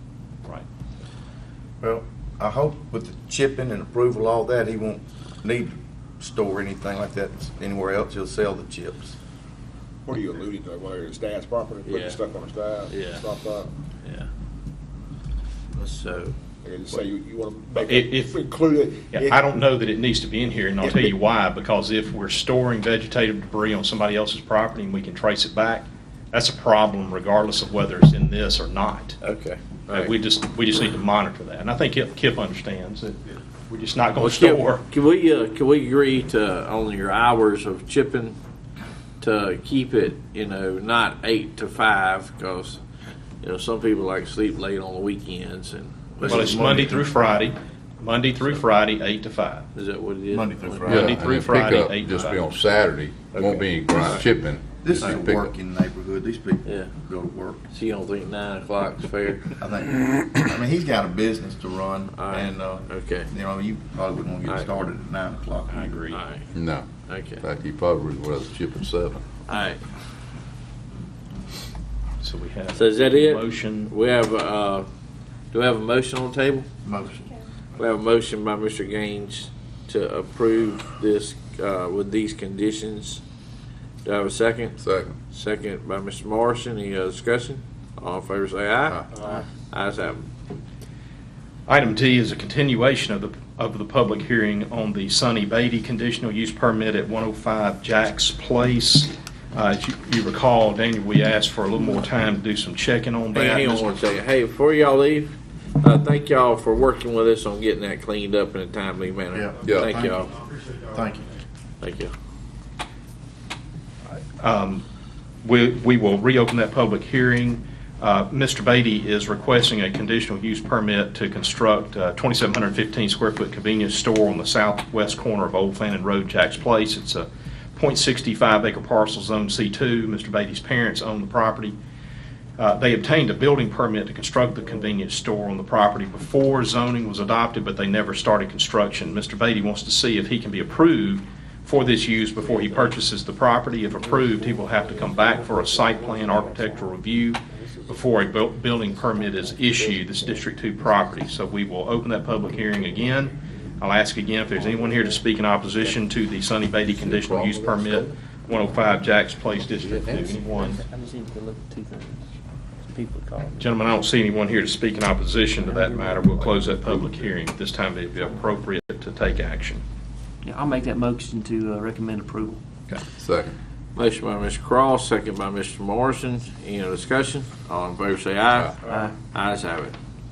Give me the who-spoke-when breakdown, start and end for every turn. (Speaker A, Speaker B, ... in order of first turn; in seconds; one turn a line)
Speaker A: 1.8-9.2
Speaker B: 10.1-13.7
Speaker C: 11.8-12.2
Speaker C: 12.9-13.3
Speaker C: 14.0-14.3
Speaker C: 15.8-16.4
Speaker B: 16.6-19.4
Speaker D: 17.8-18.4
Speaker D: 19.1-29.2
Speaker B: 20.8-21.1
Speaker C: 29.2-30.1
Speaker D: 29.9-34.8
Speaker C: 34.2-38.4
Speaker C: 39.2-42.8
Speaker C: 43.4-46.8
Speaker A: 46.2-47.0
Speaker D: 46.3-49.7
Speaker C: 49.7-50.9
Speaker A: 50.3-51.1
Speaker E: 50.9-55.5
Speaker D: 50.9-52.5
Speaker C: 53.3-54.2
Speaker A: 54.8-57.6
Speaker C: 56.6-56.9
Speaker C: 57.7-59.5
Speaker A: 59.6-66.0
Speaker C: 62.1-63.3
Speaker C: 64.5-64.8
Speaker D: 65.7-66.2
Speaker C: 66.1-66.5
Speaker E: 66.5-66.9
Speaker C: 67.1-67.4
Speaker E: 67.4-69.2
Speaker C: 69.5-69.8
Speaker D: 72.2-73.9
Speaker C: 72.7-74.9
Speaker C: 75.5-76.7
Speaker A: 76.8-77.2
Speaker C: 77.8-83.2
Speaker C: 84.0-84.8
Speaker E: 84.8-85.2
Speaker C: 85.3-90.3
Speaker D: 91.7-103.9
Speaker C: 103.3-110.3
Speaker A: 109.3-110.3
Speaker E: 109.6-109.9
Speaker B: 110.4-110.9
Speaker A: 110.9-111.2
Speaker C: 111.8-112.1
Speaker D: 114.4-114.8
Speaker D: 115.4-131.8
Speaker D: 132.6-160.8
Speaker F: 144.0-148.2
Speaker F: 148.9-151.2
Speaker F: 152.4-153.8
Speaker F: 154.4-155.2
Speaker E: 156.8-158.1
Speaker E: 159.7-160.3
Speaker F: 160.1-162.2
Speaker F: 162.9-163.7
Speaker D: 163.6-169.8
Speaker F: 165.6-167.1
Speaker F: 170.4-172.6
Speaker E: 173.2-173.6
Speaker C: 173.9-179.9
Speaker F: 178.9-179.1